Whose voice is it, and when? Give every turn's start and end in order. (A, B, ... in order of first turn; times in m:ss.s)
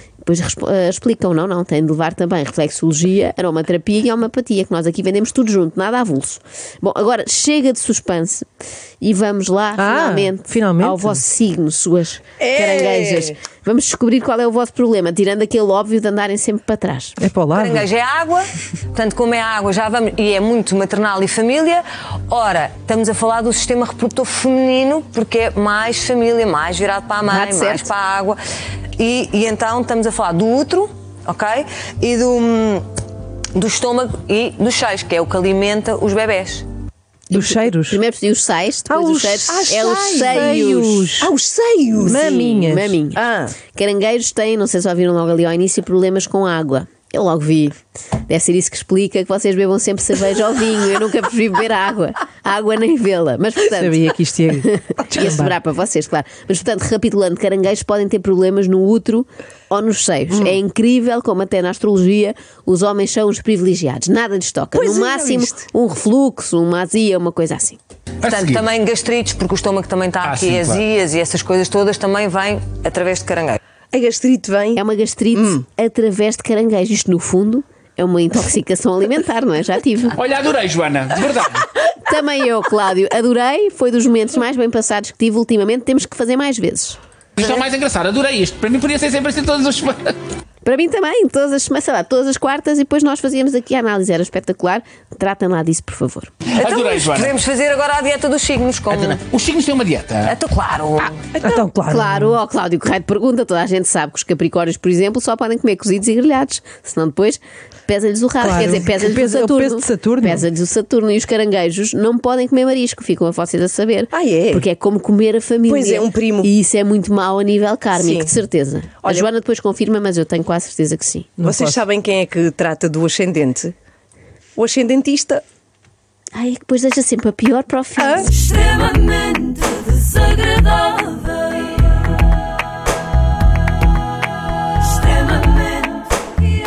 0:00.2-0:08.4 A
0:09.0-0:17.2 A
0:09.8-0:11.2 B
0:12.4-0:13.3 C
0:17.2-0:17.9 B
0:17.5-0:28.4 D
0:27.2-0:27.9 A
0:29.0-0:32.8 D
0:33.6-0:36.6 D
0:37.3-0:38.0 B
0:37.3-0:41.1 A
0:38.9-0:41.3 B
0:39.5-0:42.4 C
0:42.0-0:43.0 B
0:42.0-0:47.8 A
0:43.1-0:43.6 C
0:48.3-1:07.8 A
0:53.7-0:55.5 B
1:04.7-1:05.6 C
1:08.2-1:08.6 E
1:08.2-1:13.6 D
1:10.2-1:10.8 E
1:13.9-1:14.8 C
1:14.8-1:20.2 A
1:15.3-1:15.6 C
1:20.2-1:21.6 E
1:22.0-1:27.0 A
1:27.4-1:30.1 E
1:30.6-1:36.3 A
1:36.4-1:37.4 E
1:36.6-1:39.2 D
1:38.9-1:40.4 E
1:40.2-1:41.2 D
1:41.3-1:42.4 B
1:41.9-2:01.3 A
1:48.4-1:50.4 B
1:54.1-1:54.6 C
1:55.6-1:56.5 C
1:57.9-1:58.3 C
2:01.4-2:01.8 B
2:01.4-2:03.7 C
2:04.6-2:05.4 C
2:06.3-2:08.3 A
2:08.0-2:08.4 C